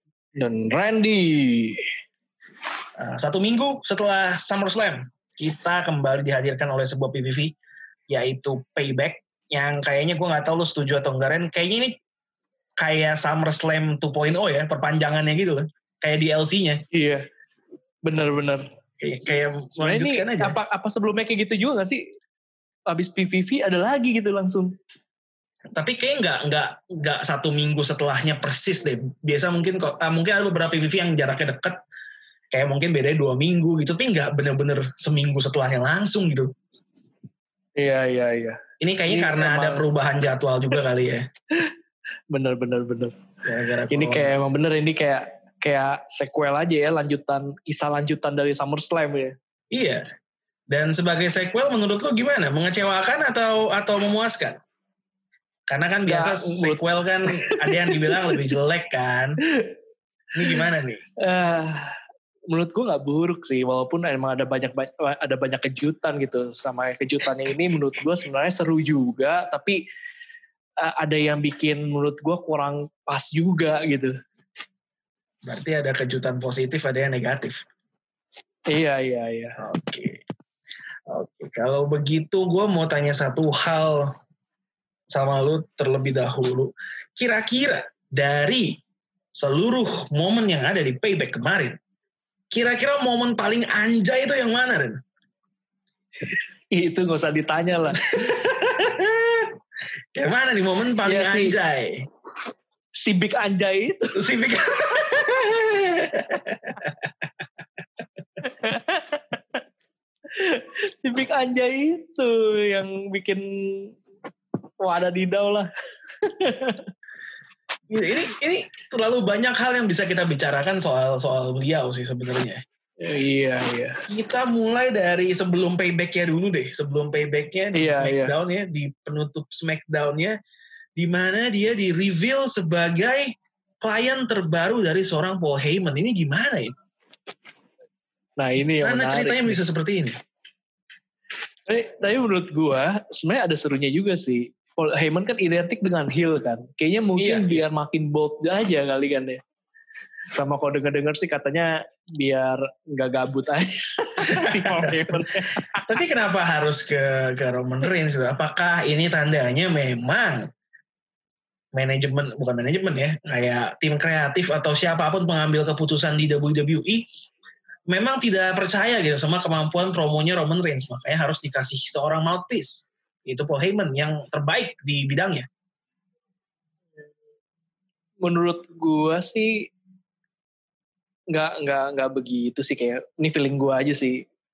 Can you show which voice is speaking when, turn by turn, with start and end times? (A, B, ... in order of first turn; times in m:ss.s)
0:00.4-0:01.8 A
0:03.0-0:07.5 B
0:08.1-0:12.0 B
0:12.8-0:16.8 B
0:16.9-0:17.3 A
0:18.0-0:18.7 A
0:19.0-0:20.6 B
0:19.8-0:22.0 A
0:22.9-0:24.8 A
0:25.7-0:31.8 B
0:32.5-0:36.5 B
0:37.8-0:39.8 A
0:38.8-0:41.3 B
0:42.3-0:43.2 A
0:43.4-0:44.3 B
0:43.9-0:49.4 A
0:49.7-0:50.0 B
0:50.7-0:54.6 B
0:55.7-0:59.4 B
0:56.1-0:56.8 A
0:57.4-0:58.4 A
1:00.4-1:01.0 B
1:01.2-1:02.0 A
1:02.5-1:09.8 A
1:10.8-1:14.2 A
1:15.4-1:17.6 B
1:18.7-1:19.6 A
1:19.6-1:20.2 B
1:21.1-1:24.1 B
1:25.1-1:28.8 B
1:29.4-1:31.8 B
1:32.5-1:35.0 B
1:36.3-1:38.1 A
1:38.1-1:39.6 B
1:40.2-1:42.1 B
1:41.0-1:41.6 A
1:43.0-1:44.2 A
1:44.2-1:47.1 B
1:48.4-1:49.4 A
1:50.4-1:54.0 A
1:54.8-1:55.7 A
1:56.2-1:56.9 A
1:57.9-2:02.6 B
2:03.0-2:04.0 A
2:04.1-2:10.4 B
2:07.7-2:08.4 A
2:11.0-2:16.8 B
2:18.4-2:19.6 A
2:18.8-2:20.2 B
2:21.7-2:29.4 A
2:27.2-2:27.6 B
2:30.4-2:35.8 A
2:34.3-2:35.2 B
2:35.9-2:40.5 B
2:41.8-2:47.1 B
2:47.9-2:55.5 B
2:58.2-2:59.6 A
3:01.3-3:04.2 A